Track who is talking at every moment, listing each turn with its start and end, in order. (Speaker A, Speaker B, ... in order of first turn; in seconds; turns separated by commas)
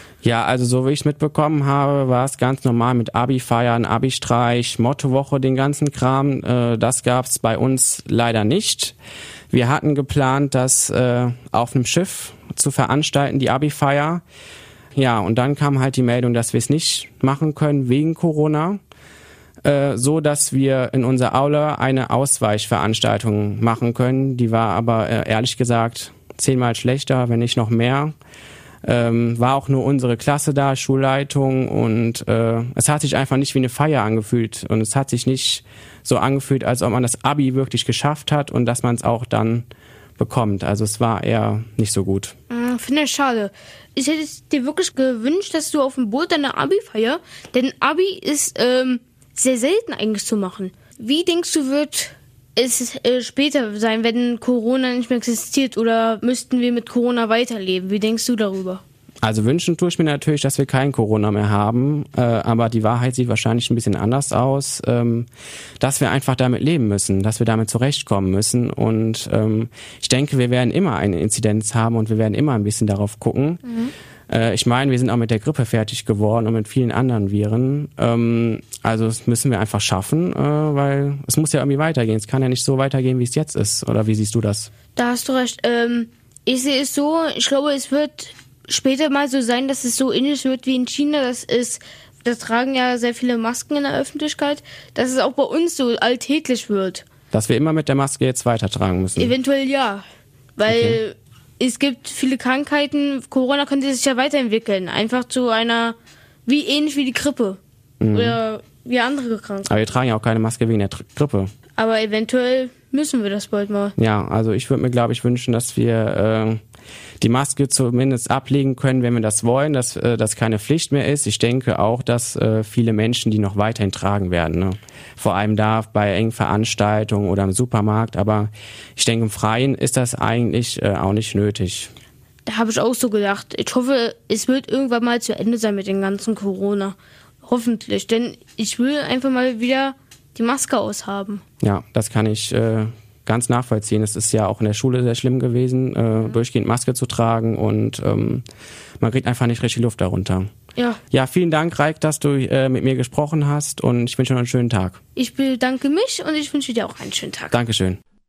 Speaker A: 0.2-8.9, Speaker A: 9.5-14.2, Speaker A: 14.9-18.8, Speaker A: 19.6-28.1, Speaker A: 28.8-39.7, Speaker A: 40.2-42.4, Speaker B: 42.5-58.8, Speaker A: 59.2-65.3, Speaker A: 65.8-73.6, Speaker B: 73.7-73.9, Speaker A: 74.3-84.7, Speaker B: 85.0-97.0, Speaker A: 97.3-99.4, Speaker B: 99.2-100.0, Speaker B: 100.6-109.9, Speaker A: 100.7-101.0, Speaker A: 108.0-108.4, Speaker A: 109.7-111.5, Speaker B: 111.8-114.0, Speaker A: 114.0-116.6, Speaker A: 117.2-131.9, Speaker B: 132.5-141.4, Speaker A: 141.6-148.4, Speaker A: 149.0-150.5, Speaker B: 150.8-151.0, Speaker A: 151.1-155.0, Speaker B: 155.2-157.6, Speaker A: 157.5-158.0